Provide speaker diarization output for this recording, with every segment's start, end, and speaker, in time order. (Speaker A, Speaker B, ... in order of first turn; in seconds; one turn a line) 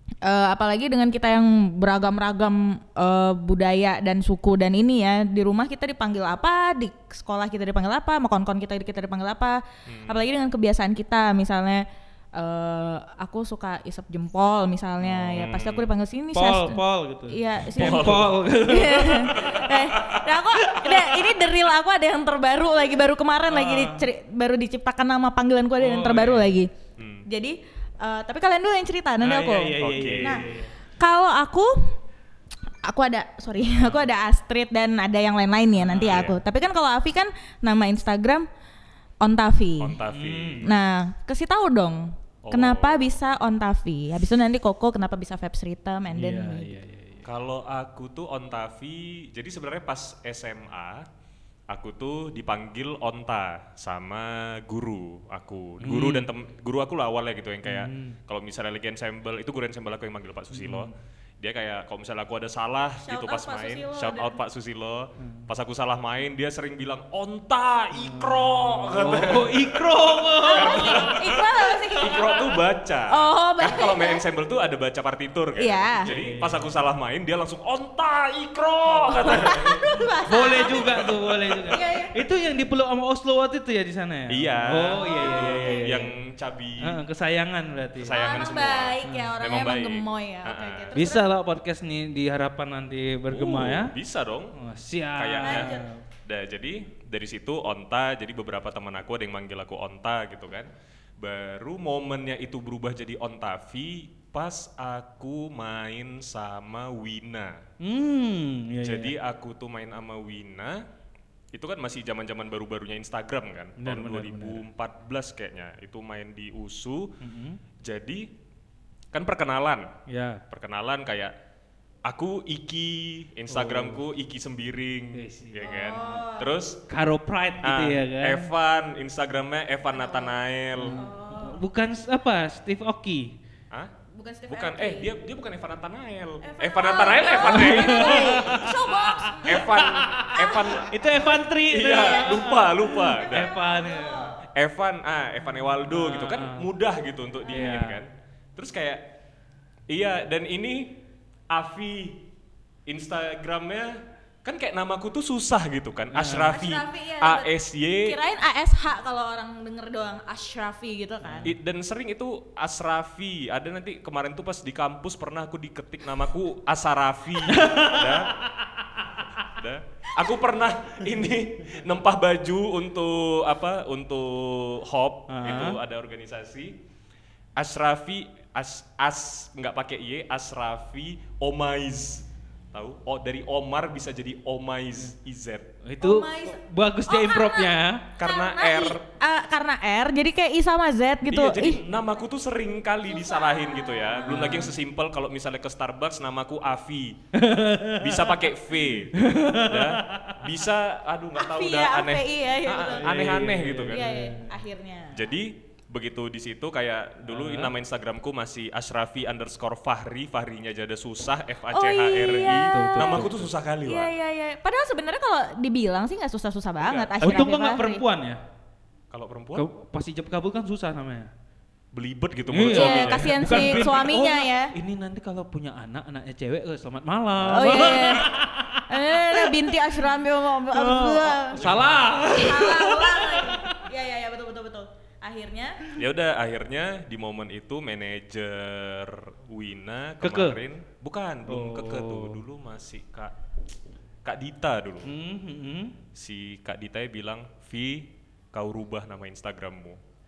Speaker A: 0.2-26.7
Speaker B: 9.9-10.2
Speaker B: 15.0-15.9
Speaker C: 16.3-19.5
Speaker B: 17.8-18.4
Speaker B: 19.4-20.3
Speaker C: 20.7-21.3
Speaker C: 23.5-24.1
Speaker C: 25.8-26.6
Speaker B: 27.0-27.3
Speaker A: 27.3-31.9
Speaker C: 29.2-30.7
Speaker B: 29.8-30.4
Speaker A: 32.8-38.5
Speaker C: 33.6-34.1
Speaker C: 35.8-36.3
Speaker B: 36.1-36.4
Speaker A: 39.2-40.0
Speaker B: 39.8-40.7
Speaker C: 40.0-40.7
Speaker A: 40.6-46.7
Speaker B: 42.4-43.1
Speaker C: 46.1-47.2
Speaker B: 47.2-51.1
Speaker B: 51.7-79.8
Speaker C: 55.8-56.3
Speaker C: 57.6-58.2
Speaker C: 60.5-60.9
Speaker A: 63.0-64.4
Speaker C: 68.0-71.2
Speaker A: 70.5-72.5
Speaker A: 73.1-74.2
Speaker A: 75.6-76.1
Speaker C: 76.0-76.7
Speaker C: 78.9-79.6
Speaker A: 79.1-82.2
Speaker C: 80.3-86.1
Speaker B: 84.3-87.0
Speaker A: 84.9-85.9
Speaker C: 86.8-88.4
Speaker B: 88.0-91.1
Speaker A: 88.1-91.3
Speaker C: 89.0-89.3
Speaker C: 90.9-93.9
Speaker B: 93.3-94.6
Speaker C: 94.6-96.0
Speaker B: 95.1-107.6
Speaker A: 95.4-95.9
Speaker C: 107.8-109.1
Speaker B: 108.8-110.8
Speaker B: 111.5-117.2
Speaker C: 113.8-114.6
Speaker C: 117.2-117.6
Speaker B: 117.8-118.3
Speaker B: 119.1-119.9
Speaker C: 120.1-120.4
Speaker B: 120.5-121.3
Speaker B: 122.0-126.8
Speaker C: 123.5-124.0
Speaker C: 125.2-126.2
Speaker A: 125.6-126.5
Speaker C: 126.9-128.5
Speaker B: 127.6-131.0
Speaker A: 129.9-130.3
Speaker C: 130.8-133.3
Speaker A: 130.9-131.7
Speaker A: 134.1-135.1
Speaker B: 134.5-138.7
Speaker A: 136.4-141.1
Speaker C: 137.4-144.3
Speaker B: 139.4-143.5
Speaker A: 141.9-142.6
Speaker A: 143.2-144.4
Speaker B: 144.6-149.0
Speaker C: 145.8-146.7
Speaker A: 147.5-147.8
Speaker C: 147.5-148.0
Speaker B: 149.9-151.0
Speaker B: 151.5-152.2
Speaker B: 152.9-158.2
Speaker C: 156.1-156.6
Speaker A: 156.5-161.5
Speaker C: 161.2-161.5
Speaker B: 161.4-168.4
Speaker C: 167.5-168.3
Speaker B: 169.4-176.8
Speaker C: 175.3-175.8
Speaker B: 177.6-185.7
Speaker C: 185.8-188.0
Speaker A: 186.0-191.8
Speaker B: 188.2-189.0
Speaker B: 191.3-197.2
Speaker A: 193.1-194.7
Speaker C: 194.2-194.7
Speaker C: 197.3-198.4
Speaker B: 198.0-204.1
Speaker C: 199.2-200.3
Speaker A: 201.4-203.1
Speaker C: 203.0-204.5
Speaker A: 203.9-205.3
Speaker B: 205.1-214.1
Speaker C: 207.3-207.7
Speaker A: 211.7-213.3
Speaker C: 212.4-213.5
Speaker A: 213.8-218.0
Speaker C: 216.8-218.4
Speaker B: 219.1-219.7
Speaker C: 219.6-221.3
Speaker B: 221.9-223.7
Speaker C: 222.5-230.1
Speaker A: 222.7-224.7
Speaker A: 227.4-228.3
Speaker B: 227.5-228.0
Speaker A: 228.9-231.6
Speaker C: 230.7-233.8
Speaker B: 231.6-232.0
Speaker A: 232.3-235.8
Speaker B: 235.9-243.3
Speaker C: 240.2-240.6
Speaker C: 241.5-242.4
Speaker B: 244.2-245.1
Speaker C: 245.0-245.9
Speaker B: 246.2-250.0